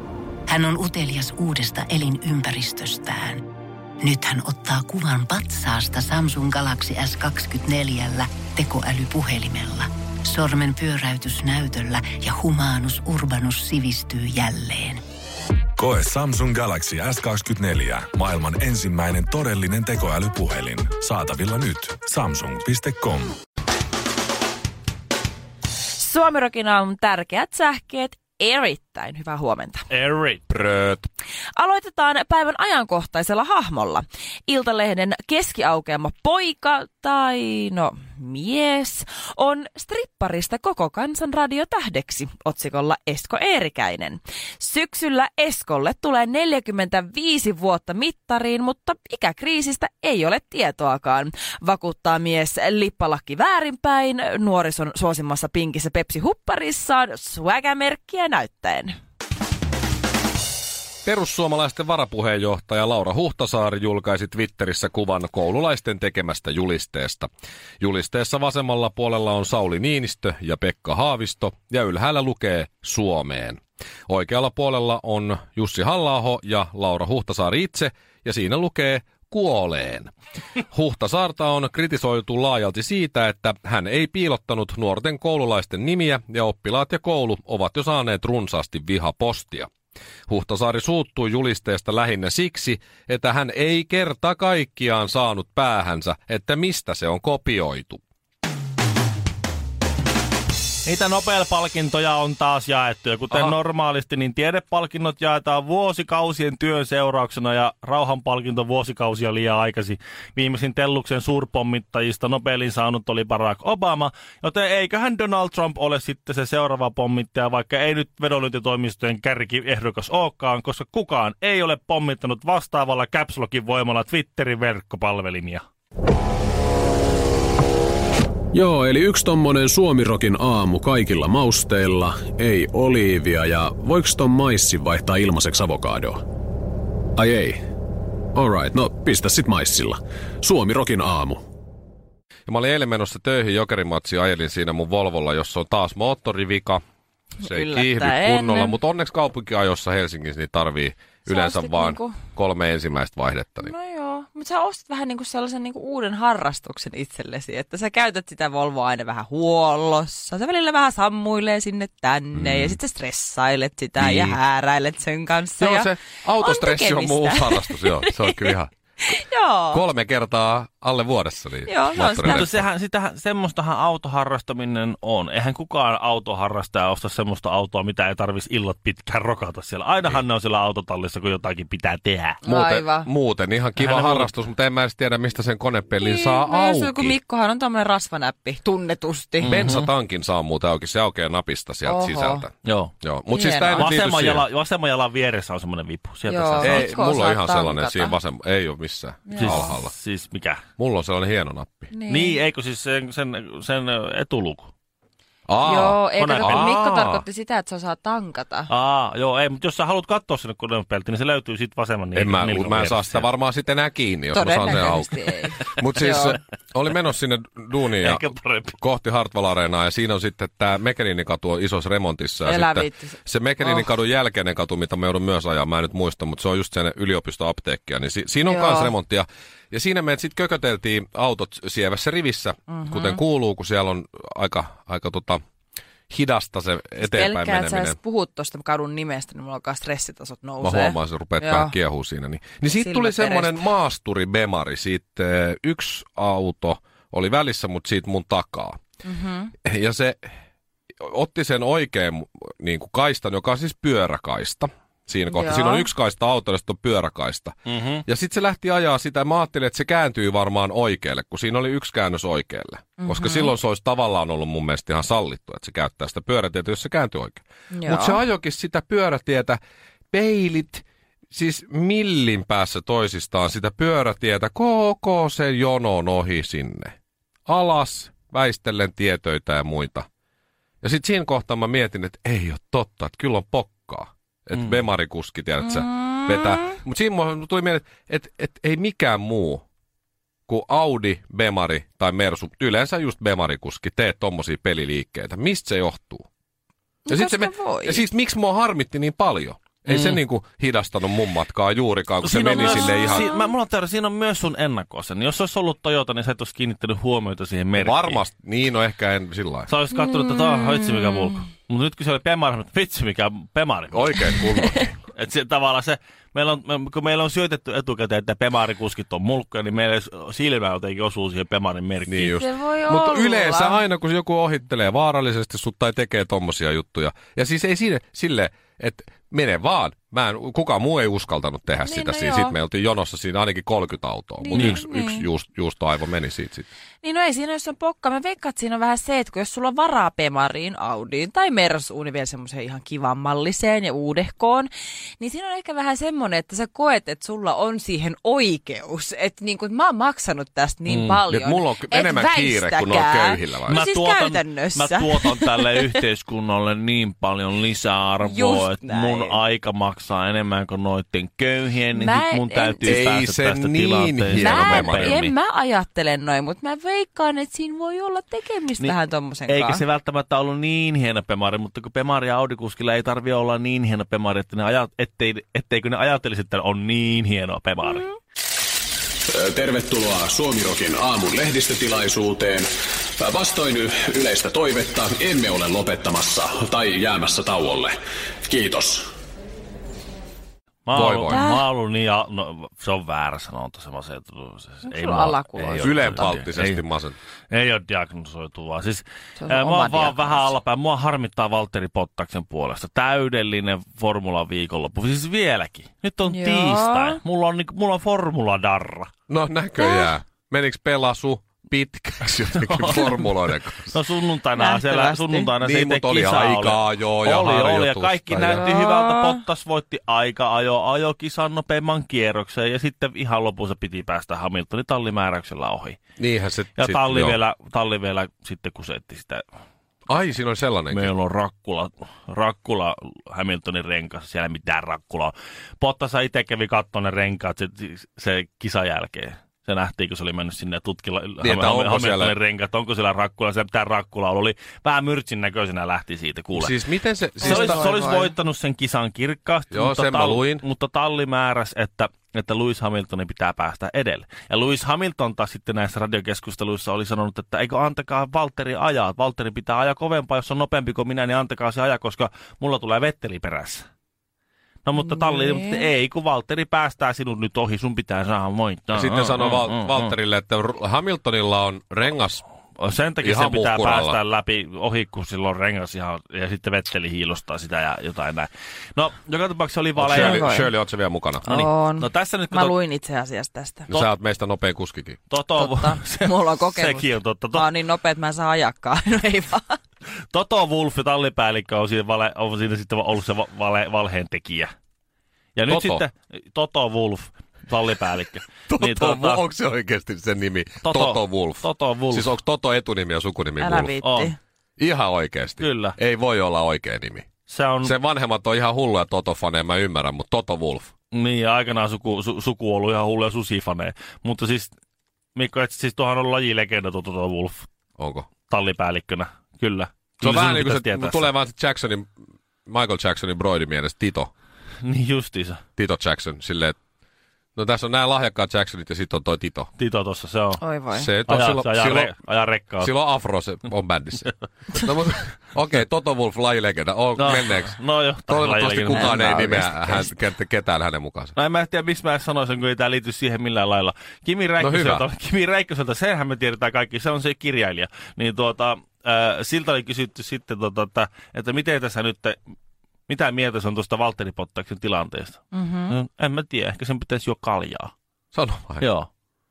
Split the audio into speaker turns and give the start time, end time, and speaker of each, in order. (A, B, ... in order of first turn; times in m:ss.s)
0:00.5-0:03.4 A
0:04.0-0:15.0 A
0:15.8-0:23.3 B
0:25.9-0:29.8 C
0:29.9-0:30.4 D
0:30.5-0:31.1 E
0:31.6-0:58.9 C
1:01.0-1:07.3 E
1:07.8-1:20.1 E
1:20.7-1:29.7 E
1:30.3-1:38.0 E
1:40.8-2:05.6 D
2:08.5-2:16.2 F
2:17.2-2:17.6 F
2:18.3-2:21.4 F
2:22.5-2:26.8 E
2:27.4-2:28.7 C
2:27.4-2:33.7 E
2:31.2-2:32.2 C
2:33.6-2:49.8 C
2:42.3-2:42.8 E
2:44.0-2:44.4 E
2:45.6-2:48.7 E
2:49.7-2:52.6 E
2:51.6-2:52.6 C
2:52.2-3:02.4 D
3:02.4-3:03.1 C
3:02.4-3:07.2 E
3:03.8-3:04.3 D
3:06.0-3:09.6 C
3:09.4-3:09.9 D
3:09.4-3:14.4 E
3:11.8-3:12.4 C
3:12.6-3:12.9 D
3:13.3-3:13.9 C
3:13.8-3:16.9 D
3:16.3-3:18.2 C
3:16.6-3:19.9 E
3:19.3-3:19.7 C
3:19.3-3:20.6 D
3:20.8-3:21.9 E
3:21.9-3:22.4 C
3:22.1-3:24.7 D
3:25.5-3:27.2 E
3:25.6-3:28.7 C
3:25.8-3:26.9 D
3:28.7-3:33.3 D
3:32.1-3:55.4 E
3:34.3-3:36.4 C
3:38.0-3:38.7 D
3:42.4-3:43.9 C
3:48.4-3:48.9 C
3:52.7-3:53.2 C
3:56.1-3:58.0 E
3:57.0-4:01.7 C
4:00.6-4:08.8 E
4:02.7-4:03.6 C
4:09.0-4:09.5 C
4:09.6-4:10.3 E
4:11.0-4:29.6 E
4:15.3-4:15.9 C
4:17.7-4:18.0 D
4:23.0-4:23.5 C
4:27.7-4:28.2 C
4:30.1-4:36.9 E
4:37.5-4:40.1 E
4:40.8-4:49.6 E
4:46.0-4:46.6 C
4:50.5-4:56.2 E
4:57.0-4:58.0 C
4:57.1-5:03.3 E
4:59.9-5:00.2 D
5:02.2-5:08.2 D
5:02.7-5:03.3 C
5:07.8-5:09.7 E
5:09.7-5:14.3 D
5:10.0-5:11.1 C
5:13.9-5:14.9 E
5:15.1-5:22.3 D
5:22.1-5:36.7 E
5:22.2-5:23.8 C
5:31.8-5:32.6 C
5:34.4-5:35.2 C
5:34.5-5:34.8 D
5:37.0-5:55.6 C
5:50.9-5:51.2 D
5:51.3-5:53.8 E
5:53.7-6:05.3 D
5:58.2-5:59.4 C
6:01.9-6:03.0 C
6:02.8-6:05.2 E
6:04.3-6:09.8 C
6:09.5-6:18.0 D
6:17.8-6:18.1 C
6:19.3-6:29.1 F
6:30.9-6:36.8 D
6:30.9-6:31.4 E
6:31.3-6:31.7 C
6:34.9-6:36.3 C
6:35.8-6:37.2 E
6:37.5-6:49.1 D
6:39.4-6:40.6 C
6:46.2-6:47.2 C
6:49.3-6:53.9 E
6:49.8-6:50.1 C
6:52.5-7:06.0 D
6:54.6-6:55.5 C
6:55.6-6:58.7 E
6:58.4-6:59.4 C
7:06.2-7:07.4 E
7:06.8-7:09.4 D
7:10.1-7:11.1 E
7:10.9-7:26.7 D
7:21.4-7:22.3 E
7:26.5-7:27.9 E
7:27.4-7:28.3 C
7:27.4-7:43.9 D
7:29.7-7:30.6 E
7:44.8-7:50.2 D
7:45.0-7:45.9 C
7:48.9-7:52.4 E
7:52.8-8:00.5 D
7:53.2-7:54.2 E
8:00.0-8:01.4 E
8:00.1-8:00.7 C
8:01.4-8:02.8 D
8:01.4-8:03.9 C
8:03.9-8:05.2 E
8:05.3-8:07.7 D
8:05.5-8:09.8 C
8:10.3-8:14.7 D
8:15.6-8:19.4 D
8:15.7-8:16.0 E
8:18.7-8:23.9 E
8:20.8-8:22.3 D
8:23.6-8:24.4 C
8:24.0-8:24.3 D
8:24.8-8:27.2 E
8:25.6-8:26.0 D
8:27.5-8:27.9 D
8:27.8-8:30.9 E
8:31.1-8:34.7 D
8:35.3-8:37.7 D
8:38.0-8:38.3 E
8:38.5-8:41.3 D
8:40.2-8:42.1 E
8:42.6-8:44.3 E
8:44.8-8:45.6 D
8:45.8-8:46.8 E
8:47.6-8:49.7 E
8:49.8-8:50.6 D
8:50.6-8:51.1 C
8:50.9-8:52.1 E
8:51.3-8:52.9 D
8:52.8-8:57.7 E
8:57.2-9:00.0 D
8:58.3-9:01.3 E
9:01.4-9:12.4 D
9:04.6-9:05.0 E
9:13.1-9:17.9 D
9:15.5-9:15.9 C
9:18.3-9:18.9 E
9:18.8-9:19.1 D